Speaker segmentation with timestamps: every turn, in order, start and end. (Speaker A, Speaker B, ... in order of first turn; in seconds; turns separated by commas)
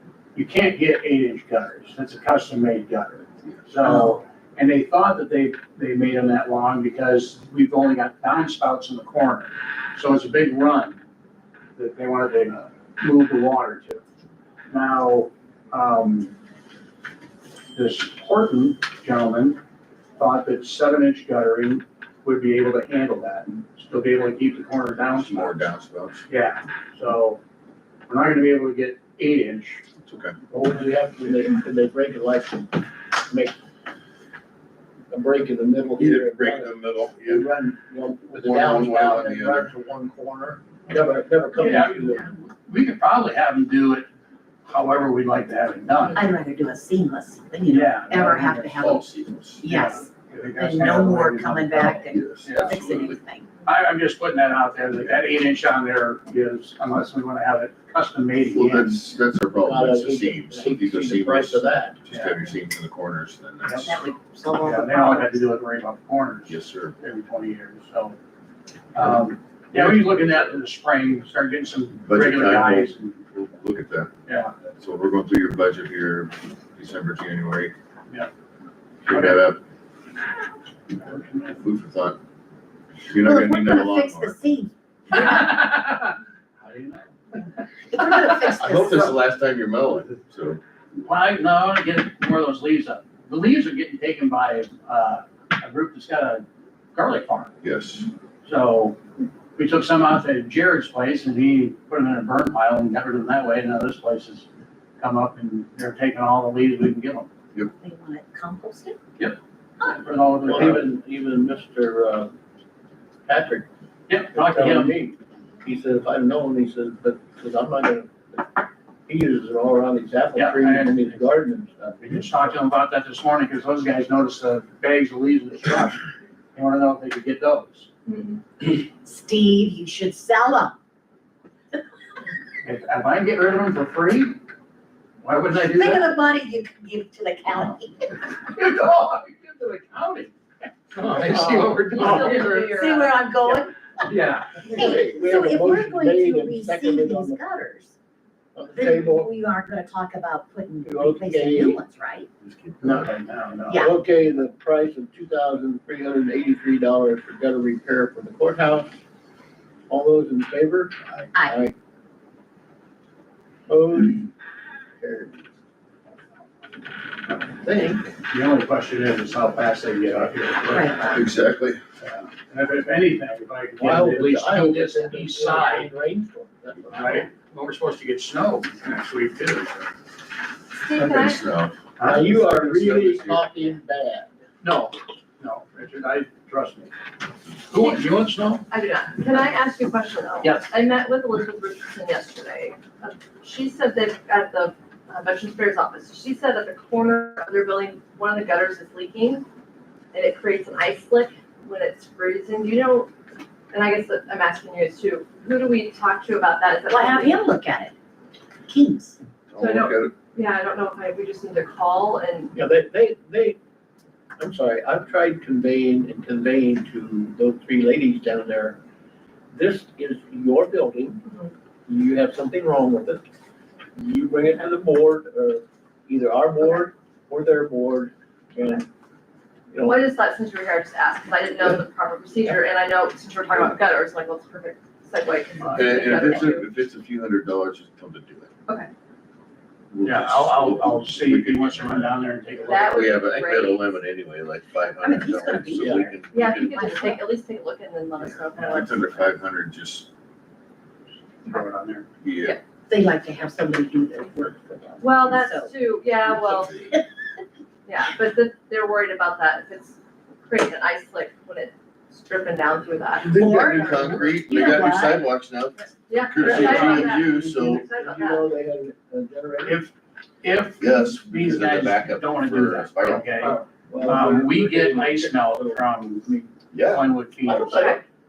Speaker A: 0.3-11.0, Speaker B: 3.8-4.2, Speaker A: 11.8-14.0, Speaker A: 14.7-16.3, Speaker A: 17.7-19.6, Speaker A: 20.2-25.6, Speaker C: 25.1-26.3, Speaker A: 26.3-27.4, Speaker A: 28.1-29.9, Speaker C: 30.1-30.4, Speaker D: 30.5-33.6, Speaker D: 35.1-42.3, Speaker C: 36.0-37.5, Speaker C: 38.3-39.7, Speaker A: 41.6-44.1, Speaker A: 44.7-46.2, Speaker B: 46.1-49.1, Speaker A: 47.7-48.9, Speaker C: 48.8-49.7, Speaker B: 49.6-53.5, Speaker A: 49.6-52.8, Speaker C: 52.1-53.2, Speaker A: 53.6-59.0, Speaker C: 58.5-63.9, Speaker D: 59.6-62.0, Speaker A: 62.1-62.4, Speaker A: 63.6-64.0, Speaker B: 63.9-65.4, Speaker A: 64.6-68.2, Speaker C: 66.5-67.0, Speaker A: 68.9-73.2, Speaker C: 69.8-70.0, Speaker C: 72.0-74.1, Speaker A: 74.3-74.5, Speaker C: 74.8-77.8, Speaker C: 79.1-79.6, Speaker A: 79.1-79.4, Speaker A: 81.0-81.6, Speaker C: 81.6-82.2, Speaker C: 83.0-84.4, Speaker B: 83.1-85.2, Speaker A: 85.1-87.4, Speaker B: 87.9-89.2, Speaker A: 88.0-88.5, Speaker C: 88.6-90.6, Speaker A: 91.0-97.5, Speaker C: 97.6-98.1, Speaker A: 98.4-99.0, Speaker A: 99.6-104.5, Speaker A: 105.0-107.3, Speaker B: 107.8-109.0, Speaker A: 109.2-110.9, Speaker D: 110.5-112.3, Speaker D: 113.3-113.7, Speaker A: 114.1-115.1, Speaker D: 114.3-122.5, Speaker A: 120.3-121.2, Speaker A: 122.0-126.0, Speaker A: 126.5-127.9, Speaker E: 128.1-128.4, Speaker B: 128.6-130.8, Speaker A: 132.6-134.4, Speaker A: 135.2-136.1, Speaker B: 135.5-138.2, Speaker A: 138.4-140.3, Speaker A: 140.9-143.0, Speaker D: 141.0-142.3, Speaker E: 141.7-143.2, Speaker B: 142.0-144.1, Speaker A: 144.1-144.8, Speaker B: 144.6-147.9, Speaker D: 144.7-147.4, Speaker D: 148.6-149.3, Speaker B: 148.7-152.3, Speaker D: 150.9-151.8, Speaker C: 152.4-153.1, Speaker A: 152.8-153.9, Speaker B: 153.7-153.9, Speaker D: 153.7-158.9, Speaker D: 159.9-161.7, Speaker C: 161.0-161.3, Speaker B: 161.3-161.6, Speaker D: 163.7-164.3, Speaker D: 165.0-165.4, Speaker D: 167.5-168.0, Speaker A: 168.3-171.2, Speaker B: 170.7-171.2, Speaker C: 171.1-171.8, Speaker A: 172.0-175.9, Speaker D: 173.8-177.3, Speaker A: 176.9-179.9, Speaker E: 180.8-181.4, Speaker C: 181.0-183.8, Speaker A: 182.0-182.3, Speaker D: 182.0-184.3, Speaker A: 184.6-186.9, Speaker A: 187.7-188.7, Speaker E: 187.7-188.1, Speaker E: 188.7-199.4, Speaker A: 190.4-190.7, Speaker E: 200.1-203.1, Speaker E: 203.7-207.4, Speaker B: 206.9-207.9, Speaker B: 208.7-209.2, Speaker C: 209.5-210.1, Speaker E: 209.6-212.5, Speaker D: 212.5-213.6, Speaker D: 214.4-218.8, Speaker D: 219.5-221.2, Speaker E: 221.3-221.5, Speaker D: 221.9-223.2, Speaker D: 223.9-228.9, Speaker D: 229.7-230.0, Speaker E: 229.8-236.7, Speaker A: 235.7-236.1, Speaker C: 235.7-238.5, Speaker C: 239.9-246.8, Speaker A: 240.0-243.1, Speaker E: 242.7-244.0, Speaker B: 245.0-247.3, Speaker D: 245.7-246.0, Speaker E: 246.3-249.3, Speaker C: 248.2-250.1, Speaker A: 251.4-252.1, Speaker C: 252.2-252.6, Speaker B: 252.9-255.7, Speaker E: 255.0-256.7, Speaker C: 256.2-256.9, Speaker B: 256.4-257.1, Speaker E: 257.9-263.3, Speaker B: 263.2-265.2, Speaker D: 263.2-264.2, Speaker C: 263.2-267.9, Speaker E: 266.1-268.5, Speaker A: 266.4-267.1, Speaker D: 266.5-269.9, Speaker A: 269.6-277.9, Speaker C: 270.8-273.3, Speaker D: 273.4-275.8, Speaker C: 276.7-277.1, Speaker D: 277.4-278.0, Speaker E: 277.6-278.0